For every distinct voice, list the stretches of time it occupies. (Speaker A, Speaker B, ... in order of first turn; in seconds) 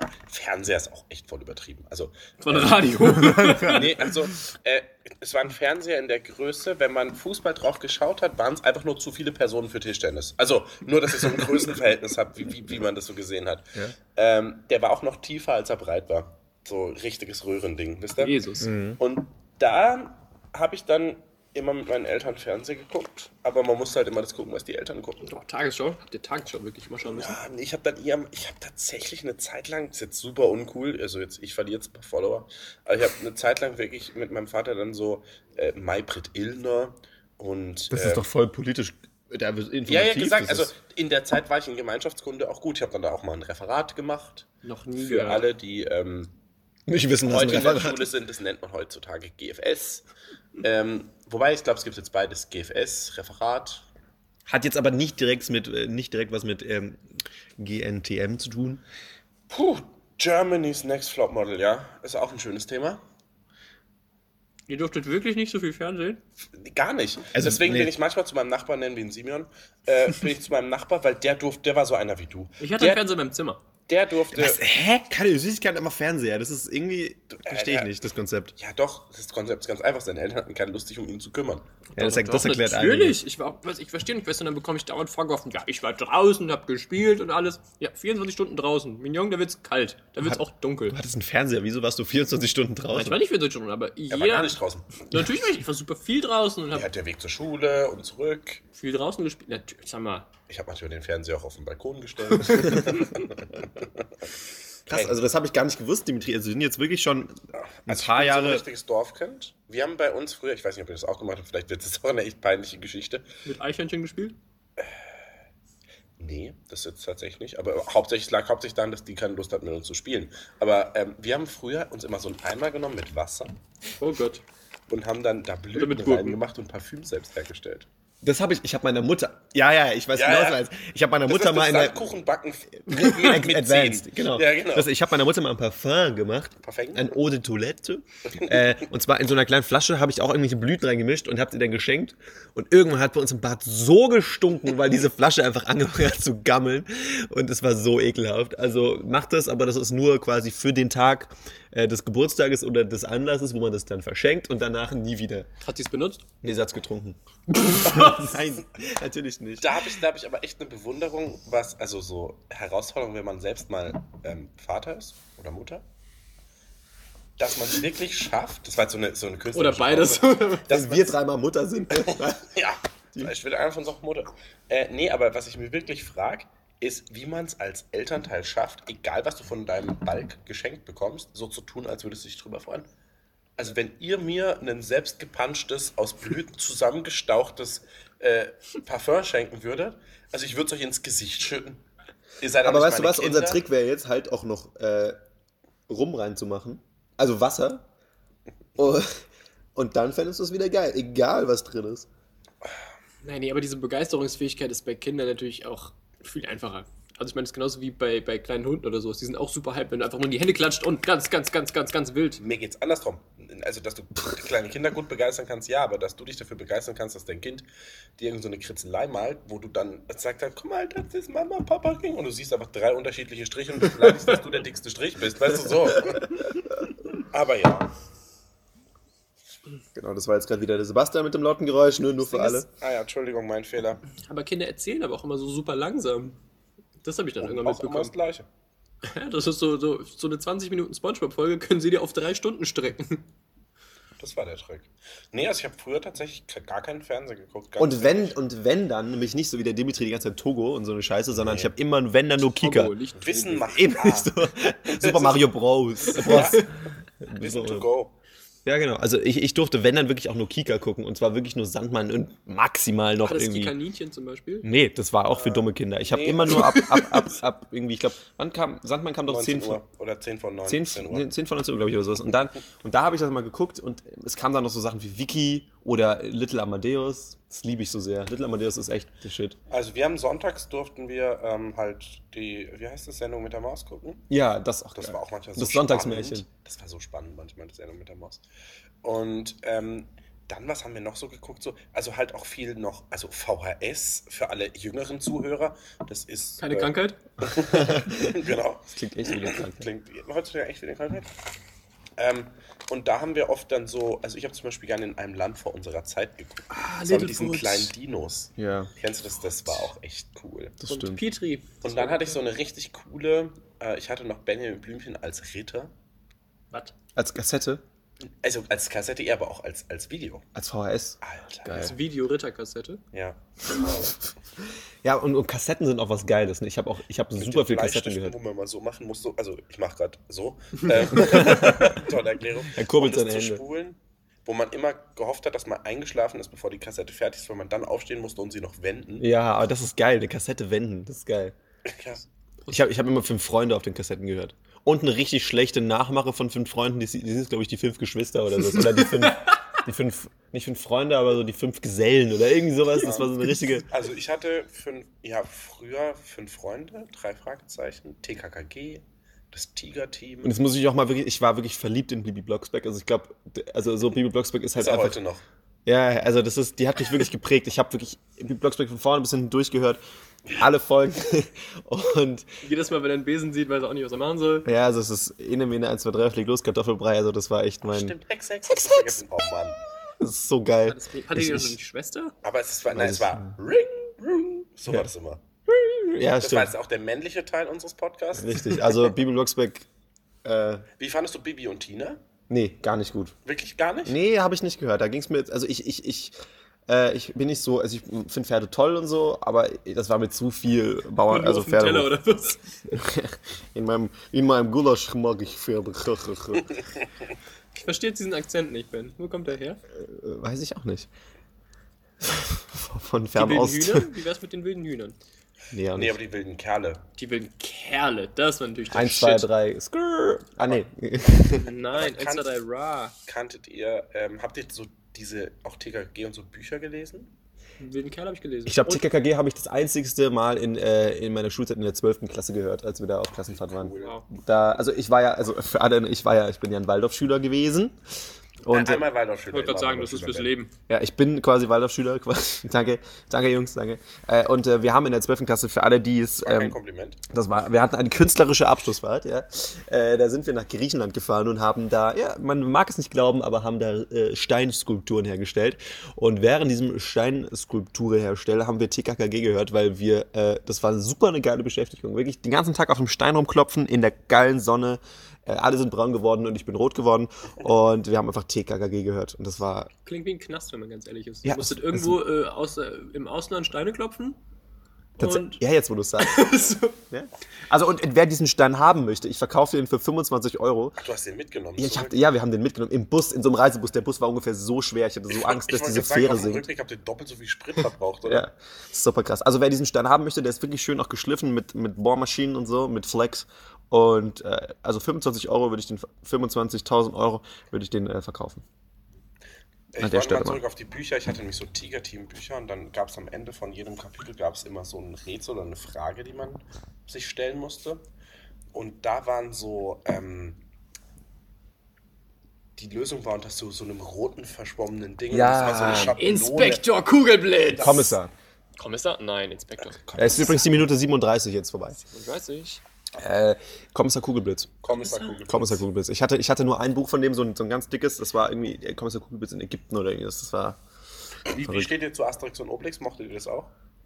Speaker A: 0.3-2.9, 3.7-25.3, 27.0-38.3, 39.9-46.3, 47.3-50.0, 50.6-53.9, 59.5-63.0, 66.5-73.0, 73.9-74.6, 77.5-77.9, 78.6-81.7, 94.1-95.0, 96.7-98.6, 100.5-104.1, 104.9-105.2, 107.8-113.3, 114.8-115.2, 116.2-123.6, 124.9-127.9, 130.2-130.6, 131.3-134.9, 136.6-137.1, 138.3-138.6, 159.6-165.8, 167.4-171.1, 171.9-182.9, 183.6-191.8, 192.4-193.6, 212.4-226.3, 227.2-227.9, 232.3-234.0, 237.4-238.5, 244.2-248.4, 251.3-251.7, 253.2-254.3, 254.9-255.5, 256.0-256.7, 257.4-258.1, 265.4-266.7, 269.3-271.3, 279.7-284.3, 285.0-288.4, 289.0-301.3, 302.2-310.8, 311.8-315.9, 318.4-320.4, 321.2-322.0, 323.1-324.2, 327.4-339.3, 341.9-342.2, 353.0-353.3, 353.9-360.6, 364.8-365.4, 377.9-379.8, 382.4-385.4, 386.4-389.0, 391.0-392.2, 393.4-394.2, 415.9-417.0, 421.9-422.5, 423.3-427.3, 433.5-434.2, 438.7-440.5, 446.4-447.2, 481.0-482.2, 485.3-488.5, 499.9-508.0, 508.7-510.6, 512.8-516.8, 519.9-520.7, 524.8-525.8, 531.5-533.7
Speaker B: 2.4-3.9, 18.2-18.7, 25.2-27.4, 44.6-45.5, 64.7-66.2, 72.6-73.6, 81.9-91.0, 92.9-96.9, 98.8-100.3, 113.4-114.4, 124.0-124.4, 125.8-126.4, 155.6-156.2, 157.7-158.3, 169.5-170.7, 203.2-212.4, 234.2-236.4, 237.0-238.1, 239.0-243.2, 252.6-253.7, 256.2-256.6, 263.2-264.7, 266.5-267.3, 296.6-297.2, 306.7-307.9, 310.9-312.4, 321.8-323.0, 348.8-349.5, 372.6-374.7, 380.9-382.3, 401.3-402.8, 407.7-409.8, 413.4-415.2, 417.2-419.5, 421.6-423.2, 427.8-429.1, 434.0-434.2, 439.5-440.7, 470.1-474.4, 475.2-475.6, 476.2-477.0, 515.9-518.2, 518.8-520.0, 522.0-522.8, 525.0-525.4
Speaker C: 3.1-4.1, 18.6-19.0, 37.9-40.7, 46.9-48.1, 54.5-57.0, 57.6-58.8, 67.3-67.9, 74.3-78.5, 82.0-83.2, 90.2-93.2, 102.6-103.0, 104.9-107.4, 107.9-108.6, 128.2-132.0, 132.8-155.5, 156.4-159.7, 170.7-172.6, 192.6-195.2, 195.9-197.8, 198.8-199.2, 199.8-202.1, 230.0-232.7, 247.8-253.0, 253.7-257.9, 258.6-263.7, 264.6-269.8, 270.6-279.6, 284.3-286.5, 297.5-299.9, 308.6-308.9, 310.8-311.2, 317.2-317.8, 320.6-321.9, 325.0-328.4, 331.1-332.0, 332.7-333.6, 339.2-341.6, 342.7-353.9, 360.4-365.2, 365.9-370.0, 370.6-372.5, 374.6-378.1, 378.7-379.1, 380.2-381.8, 382.9-383.5, 385.7-386.7, 388.4-389.9, 390.4-390.9, 392.5-393.4, 394.1-396.3, 396.9-402.1, 402.9-406.7, 409.9-411.1, 412.2-414.1, 415.7-416.2, 418.9-421.7, 428.7-438.0, 438.6-439.1, 440.9-446.8, 447.3-469.9, 471.4-472.2, 475.2-476.5, 477.1-481.0, 481.8-486.7, 488.3-498.6, 500.0-500.6, 515.3-516.2, 517.8-518.3, 520.1-522.0, 523.2-524.7, 525.5-530.8, 531.5-531.9